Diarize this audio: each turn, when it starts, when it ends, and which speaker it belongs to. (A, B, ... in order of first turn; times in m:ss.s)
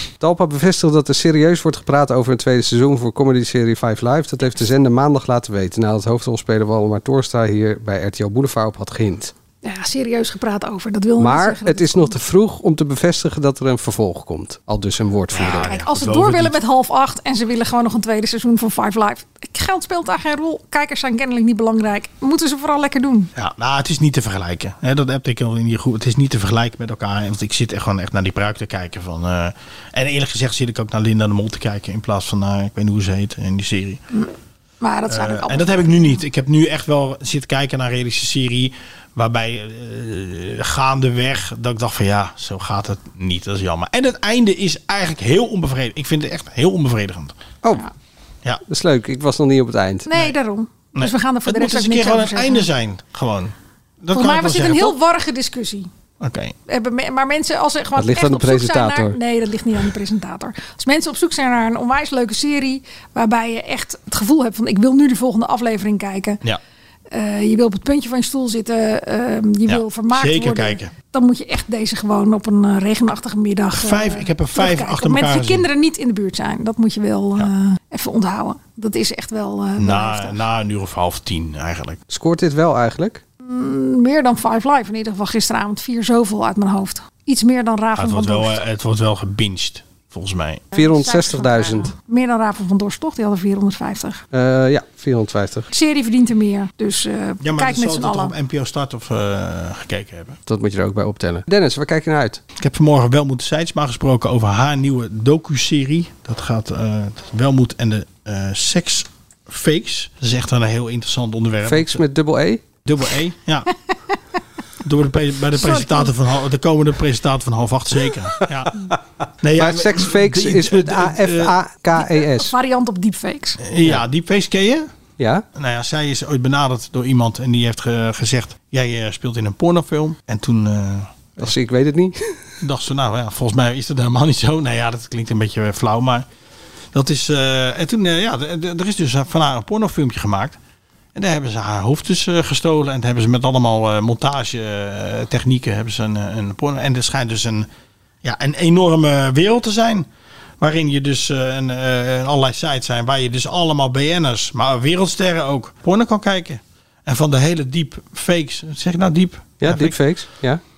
0:00.2-0:09.3 A
0:09.6-0:12.2 B
0:11.2-0:15.7 A
0:15.3-0:16.6 C
0:15.4-0:23.3 B
0:23.4-0:34.0 C
0:34.8-0:36.2 B
0:35.1-0:47.3 C
0:48.6-0:50.1 A
0:50.1-0:52.7 B
0:50.9-0:54.9 C
0:54.1-0:55.9 B
0:56.2-0:56.5 C
0:56.7-1:06.4 B
0:58.0-0:59.2 A
1:07.1-1:20.4 B
1:09.7-1:10.9 C
1:13.8-1:15.7 C
1:19.8-1:22.0 C
1:22.1-1:23.2 A
1:23.4-1:28.6 B
1:28.0-1:30.6 C
1:30.7-1:34.2 B
1:30.7-1:31.9 A
1:34.3-1:35.7 A
1:35.7-1:38.3 B
1:37.4-1:40.4 C
1:40.4-1:42.4 A
1:42.6-1:52.0 C
1:51.6-1:52.6 A
1:52.8-1:53.7 C
1:54.8-1:58.8 C
1:55.5-1:56.2 B
1:59.4-2:01.6 C
1:59.6-2:02.5 A
2:02.1-2:03.6 B
2:03.6-2:04.9 C
2:05.2-2:05.4 A
2:05.6-2:11.5 C
2:11.4-2:12.4 A
2:12.6-2:16.2 C
2:16.9-2:20.6 C
2:21.1-2:27.7 C
2:28.2-2:30.0 C
2:30.6-2:40.0 C
2:39.6-2:40.6 A